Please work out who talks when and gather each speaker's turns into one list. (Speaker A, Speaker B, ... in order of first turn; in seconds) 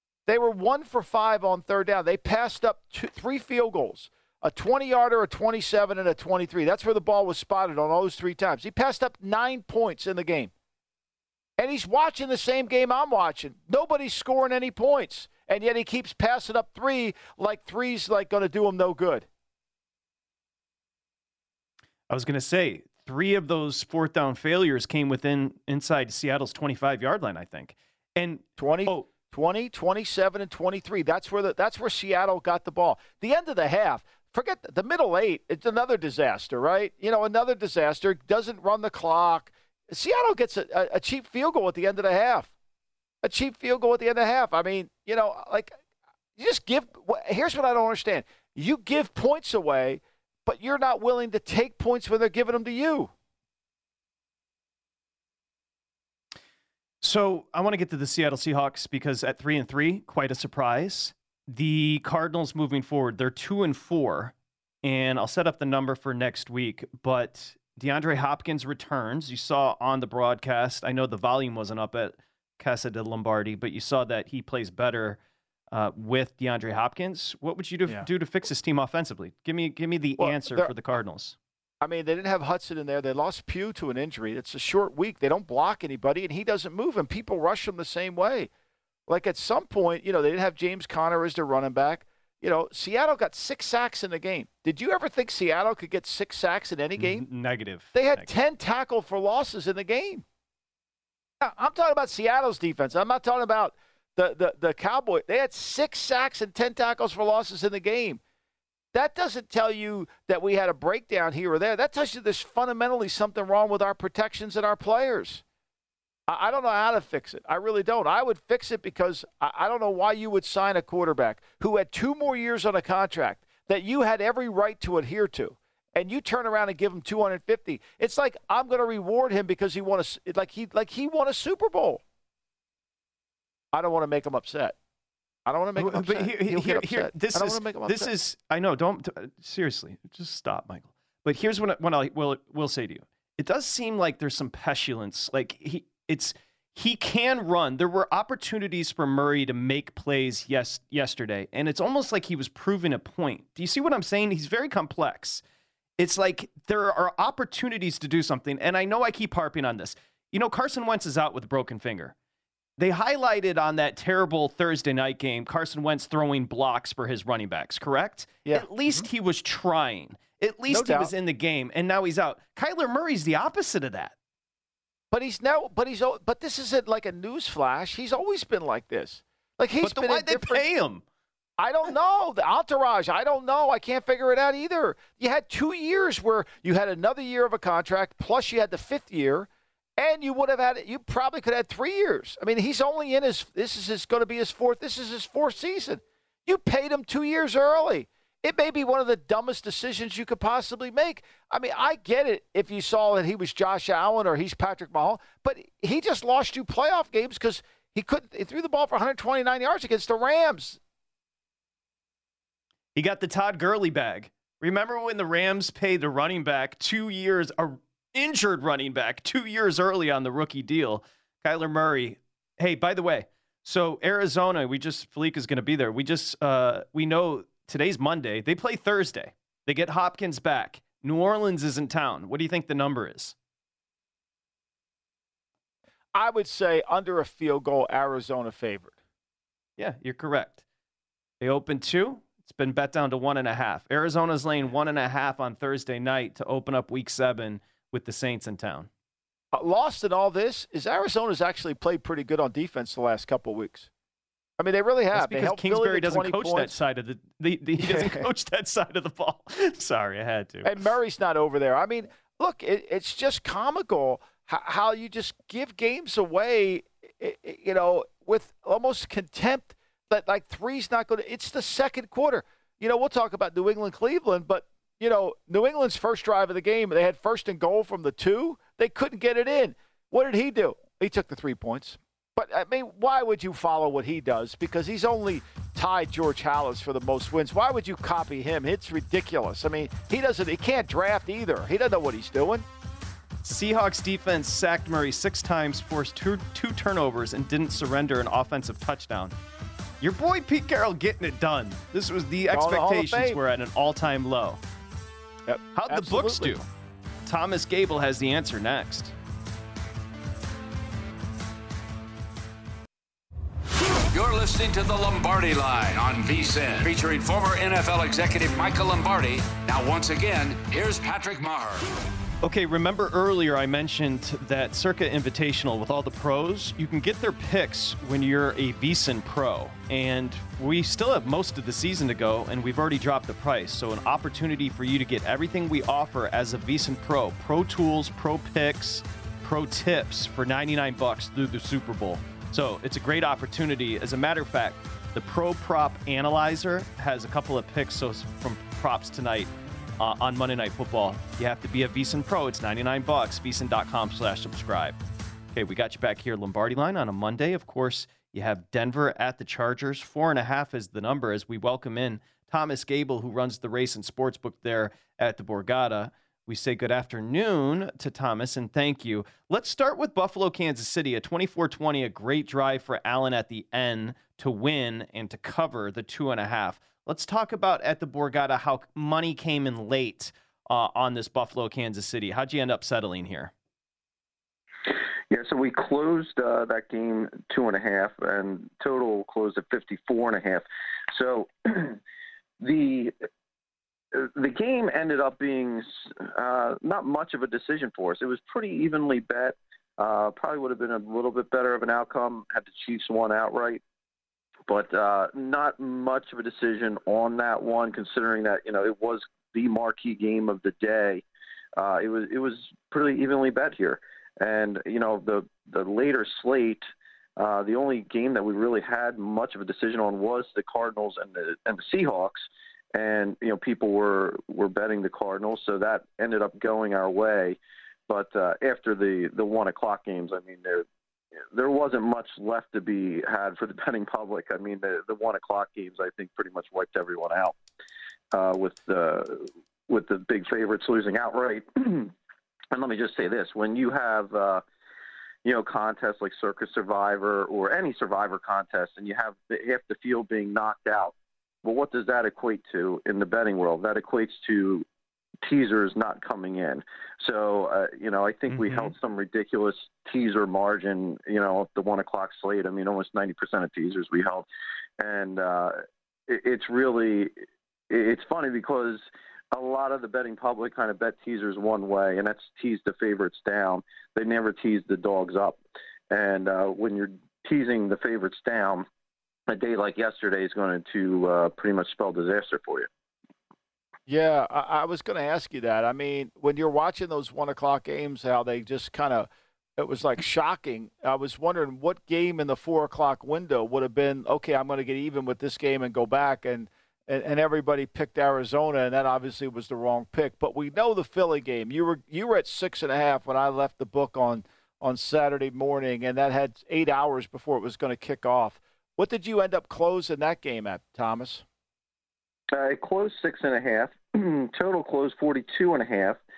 Speaker A: 0.3-10.5, 11.6-19.3, 28.6-42.5, 43.2-45.8, 46.4-53.1, 80.2-80.7, 81.8-88.5, 89.1-97.2, 97.9-100.2, 101.4-108.2, 108.9-115.4, 116.3-132.0, 133.7-134.8, 135.4-138.1, 168.4-169.1, 170.7-171.1, 175.1-180.6, 181.6-210.8, 236.1-238.9, 249.5-253.9, 254.6-256.8, 257.8-258.3, 260.6-292.6, 302.5-303.4, 305.4-306.6, 484.1-511.4
Speaker B: 22.1-29.1, 57.0-75.2, 75.7-81.4, 97.0-98.3, 135.8-155.4, 156.0-162.1, 162.8-174.1, 179.8-181.0, 212.9-233.3, 239.8-240.6, 241.4-248.9, 255.1-260.9, 293.4-299.3, 300.0-304.6, 305.7-306.6, 307.2-309.1, 322.4-355.0, 355.5-383.5, 458.5-458.9
Speaker C: 314.1-321.9
Speaker D: 385.3-392.0, 392.6-393.1, 394.1-403.8, 404.7-411.2, 411.8-416.8, 417.4-427.6, 428.1-430.8, 431.5-437.5, 438.3-442.1, 442.7-444.6, 445.4-454.8, 455.4-464.4, 465.0-467.3, 467.9-475.6, 476.1-478.9, 479.5-482.9, 512.5-516.2